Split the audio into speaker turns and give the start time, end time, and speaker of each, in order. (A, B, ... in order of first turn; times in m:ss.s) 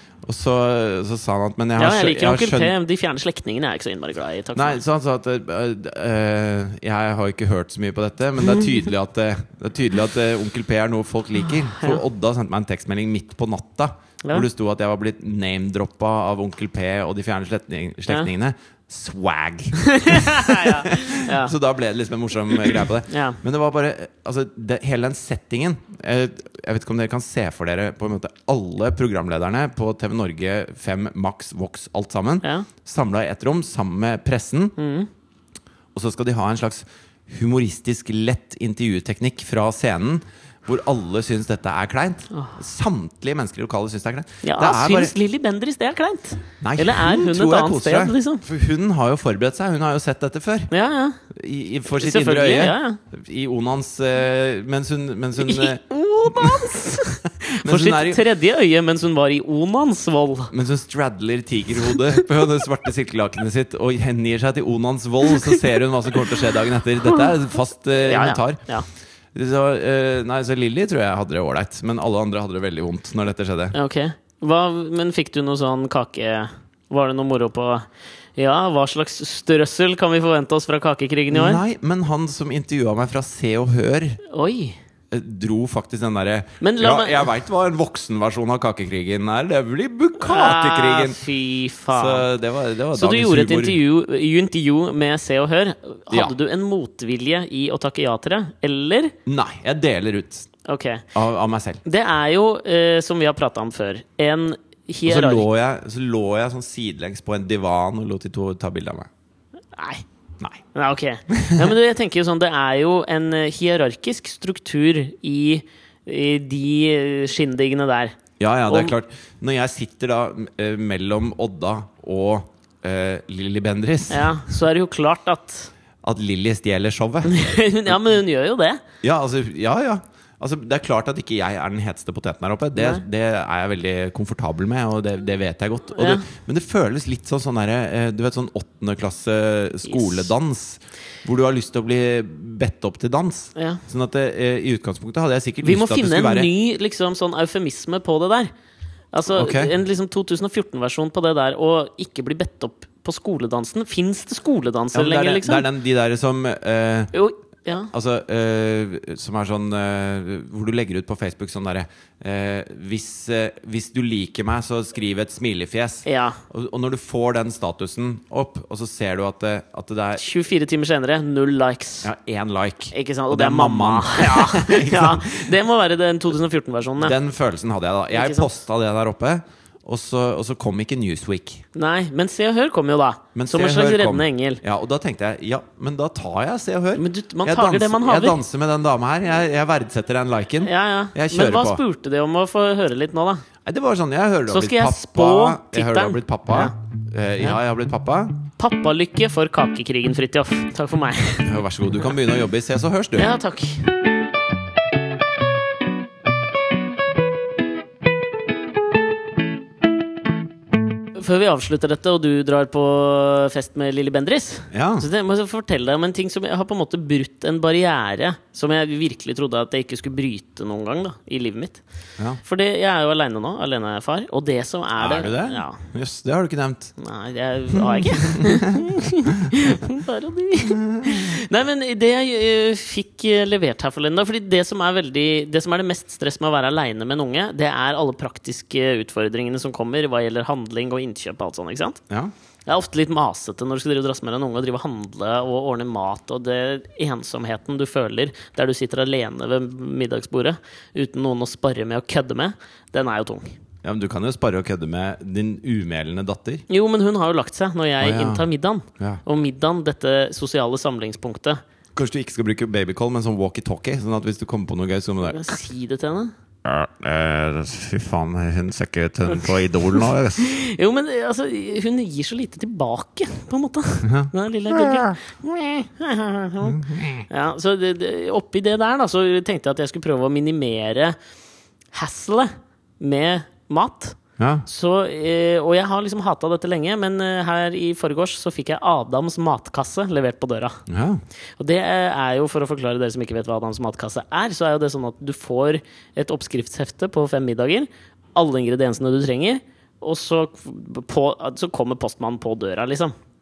0:00.2-0:02.8 A
0:01.8-0:04.8 B
0:04.6-0:34.8 A
0:11.8-0:12.0 B
0:19.9-0:21.5 B
0:23.1-0:23.4 B
0:32.4-0:32.7 B
0:34.8-0:35.1 B
0:35.9-0:45.1 A
0:44.4-0:48.4 B
0:46.6-0:50.7 A
0:50.7-0:51.2 B
0:51.3-0:57.0 A
0:51.9-0:53.0 B
0:55.4-1:00.5 B
0:57.6-0:58.2 A
1:00.5-1:08.6 A
1:01.9-1:02.2 B
1:08.0-1:08.9 B
1:09.3-1:13.8 A
1:13.7-1:17.9 B
1:18.4-1:21.6 B
1:21.3-1:24.2 A
1:24.3-1:24.8 B
1:25.1-1:31.2 A
1:26.6-1:27.3 B
1:30.2-1:32.3 B
1:31.9-1:33.8 A
1:32.9-1:39.1 B
1:39.3-1:40.5 A
1:40.6-1:41.1 B
1:41.1-1:41.8 A
1:41.8-1:45.5 B
1:45.1-1:49.1 A
1:49.8-1:50.0 B
1:50.7-1:58.2 B
1:51.3-1:51.7 A
1:58.4-2:04.4 A
1:58.7-1:58.9 B
2:04.1-2:05.7 B
2:06.0-2:08.0 A
2:07.2-2:08.8 B
2:09.0-2:26.5 A
2:12.8-2:13.0 B
2:16.0-2:16.2 B
2:19.9-2:20.2 B
2:23.6-2:23.8 B
2:25.6-2:28.5 B
2:29.1-2:35.7 B
2:29.3-2:29.7 A
2:34.9-2:37.1 A
2:37.1-2:37.9 B
2:37.9-2:50.2 A
2:46.1-2:46.4 B
2:50.2-2:52.1 B
2:52.0-2:55.5 A
2:52.9-2:57.2 B
2:57.0-3:01.6 A
2:58.1-2:58.5 B
3:01.8-3:04.6 B
3:03.4-3:11.8 A
3:07.0-3:08.4 B
3:10.6-3:13.4 B
3:13.6-3:18.4 A
3:14.5-3:16.7 B
3:18.6-3:21.6 B
3:21.4-3:23.3 A
3:23.2-3:23.8 B
3:31.2-3:41.8 B
3:34.7-3:35.1 A
3:42.4-3:45.8 B
3:45.0-3:47.0 A
3:47.0-4:02.0 B
3:47.7-3:48.9 A
3:50.6-3:51.4 A
4:02.7-4:13.6 B
4:13.8-4:16.6 A
4:16.7-4:21.6 B
4:18.0-4:18.5 A
4:22.0-4:25.6 A
4:25.3-4:26.3 B
4:26.6-4:30.5 A
4:30.4-4:41.2 B
4:34.0-4:35.2 A
4:36.6-4:37.2 A
4:41.9-4:50.8 B
4:44.4-4:44.7 A
4:50.9-4:51.2 A
4:51.6-5:03.1 B